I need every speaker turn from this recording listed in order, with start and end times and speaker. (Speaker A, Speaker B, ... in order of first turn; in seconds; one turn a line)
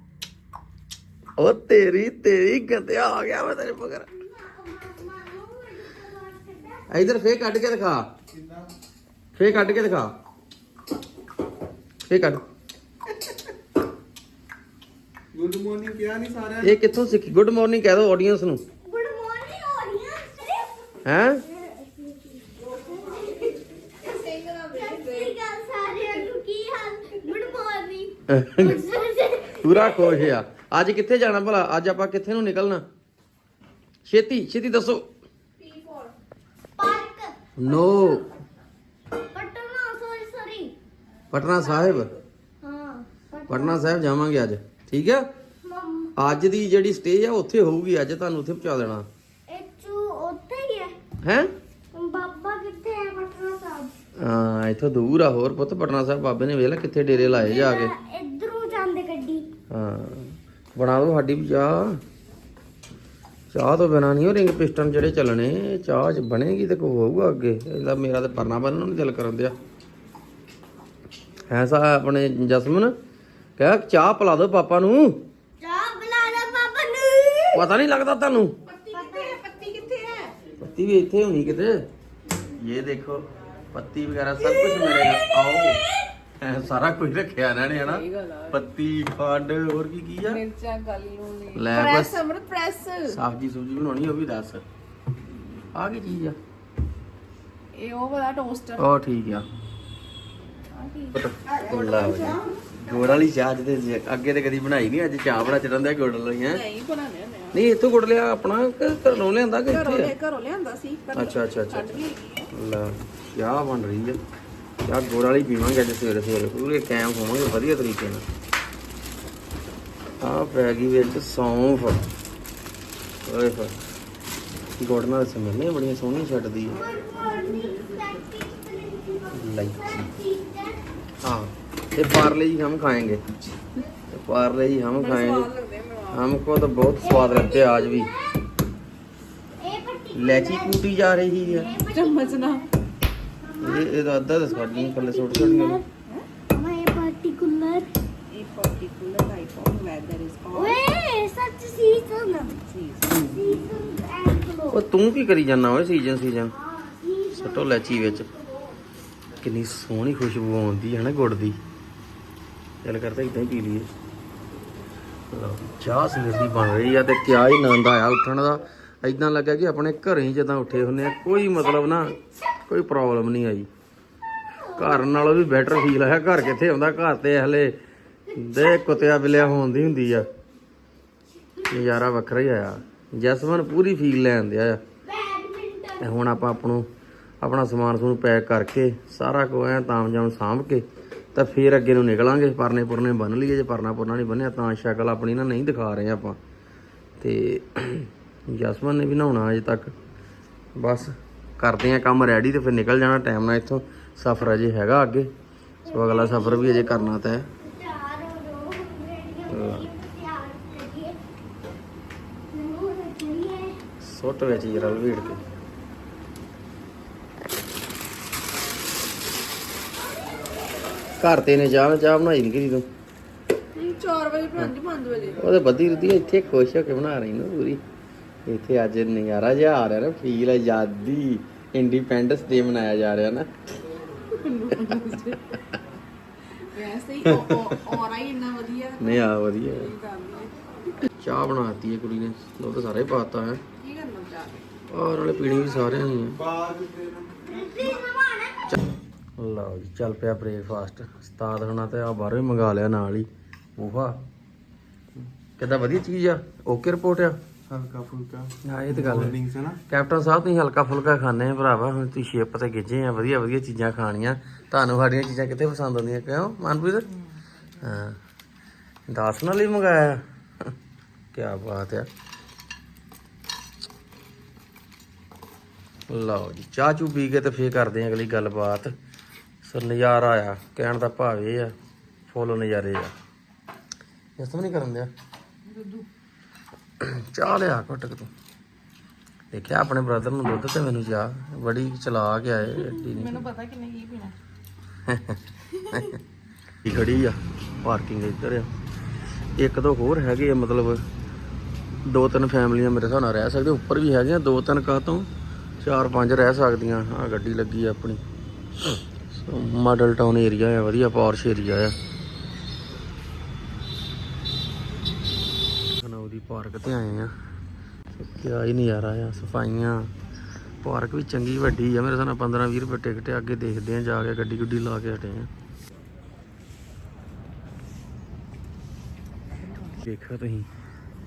Speaker A: 1.4-4.1
Speaker B: 4.1-6.9
Speaker A: 6.9-8.1
Speaker C: 8.3-8.7
Speaker A: 9.4-10.1
Speaker A: 12.1-12.4
Speaker C: 15.3-16.8
Speaker A: 16.6-18.6
Speaker B: 18.8-23.6
Speaker A: 21.1-21.4
Speaker D: 24.0-25.4
Speaker B: 24.7-30.2
Speaker A: 28.3-28.8
Speaker A: 29.6-32.8
Speaker A: 34.1-35.1
Speaker D: 35.6-36.1
Speaker B: 36.8-38.2
Speaker A: 37.6-38.3
Speaker B: 39.3-40.8
Speaker A: 41.3-42.1
Speaker B: 42.6-44.0
Speaker A: 43.5-45.3
Speaker B: 45.6-46.1
Speaker A: 46.2-49.1
Speaker B: 49.5-51.0
Speaker A: 51.2-51.5
Speaker B: 51.9-53.9
Speaker A: 54.2-57.9
Speaker B: 57.1-59.5
Speaker A: 59.7-62.0
Speaker A: 63.5-69.5
Speaker A: 71.5-72.9
Speaker A: 73.6-75.2
Speaker B: 75.6-77.7
Speaker A: 77.5-78.5
Speaker D: 78.7-80.3
Speaker B: 78.9-79.4
Speaker A: 80.6-81.8
Speaker A: 82.6-85.8
Speaker B: 84.4-85.2
Speaker A: 86.4-90.4
Speaker D: 87.8-88.6
Speaker D: 90.2-93.2
Speaker A: 91.5-92.2
Speaker A: 93.1-94.6
Speaker A: 95.7-96.4
Speaker D: 97.7-99.0
Speaker A: 98.8-99.5
Speaker D: 100.8-102.6
Speaker A: 101.1-106.6
Speaker D: 106.5-107.6
Speaker A: 107.5-110.1
Speaker D: 109.7-112.5
Speaker A: 111.1-112.0
Speaker A: 112.5-114.2
Speaker A: 114.8-118.2
Speaker A: 120.2-122.0
Speaker A: 123.2-123.7
Speaker A: 124.8-126.8
Speaker B: 126.7-130.8
Speaker D: 126.7-128.2
Speaker A: 129.3-130.1
Speaker A: 131.2-133.2
Speaker A: 134.1-135.5
Speaker D: 135.0-136.3
Speaker A: 136.1-138.1
Speaker B: 137.0-138.3
Speaker B: 139.6-142.7
Speaker A: 140.2-141.7
Speaker D: 141.9-142.7
Speaker B: 143.5-145.8
Speaker A: 143.6-145.8
Speaker B: 146.5-147.9
Speaker D: 148.3-150.8
Speaker B: 150.5-152.6
Speaker D: 152.7-153.1
Speaker B: 153.1-154.8
Speaker A: 154.7-156.6
Speaker B: 156.6-158.8
Speaker A: 157.3-158.3
Speaker A: 159.4-161.6
Speaker A: 162.8-163.9
Speaker A: 165.3-172.2
Speaker A: 172.7-173.7
Speaker B: 174.6-175.2
Speaker A: 174.8-177.8
Speaker B: 178.3-179.4
Speaker A: 178.3-180.3
Speaker A: 181.7-184.8
Speaker B: 185.1-186.4
Speaker A: 186.0-186.9
Speaker A: 187.4-196.4
Speaker A: 197.2-199.9
Speaker A: 200.8-205.3
Speaker B: 205.9-211.2
Speaker A: 205.9-207.5
Speaker A: 209.5-209.9
Speaker B: 212.5-213.8
Speaker A: 214.0-215.4
Speaker B: 214.4-215.4
Speaker A: 221.2-222.9
Speaker D: 223.8-225.4
Speaker A: 225.4-227.8
Speaker A: 228.5-233.5
Speaker D: 234.3-235.6
Speaker D: 236.7-240.7
Speaker A: 237.2-237.6
Speaker A: 239.0-239.9
Speaker A: 241.2-243.6
Speaker D: 243.8-244.6
Speaker A: 244.9-246.4
Speaker C: 246.3-247.3
Speaker B: 247.4-248.6
Speaker A: 249.4-254.2
Speaker A: 255.6-257.4
Speaker C: 257.7-259.8
Speaker A: 258.6-267.1
Speaker A: 267.8-268.2
Speaker A: 269.1-270.7
Speaker A: 271.3-272.1
Speaker A: 276.1-278.9
Speaker A: 279.6-281.7
Speaker A: 282.3-283.1
Speaker A: 284.4-285.1
Speaker D: 285.7-286.1
Speaker A: 287.0-288.3
Speaker A: 289.5-293.5
Speaker D: 292.6-294.4
Speaker A: 295.1-296.2
Speaker A: 296.8-298.7
Speaker A: 299.6-301.0
Speaker A: 302.1-305.3
Speaker A: 305.8-308.2
Speaker A: 308.8-312.0
Speaker A: 316.0-317.3
Speaker A: 318.1-320.1
Speaker A: 320.8-325.5
Speaker A: 329.9-330.7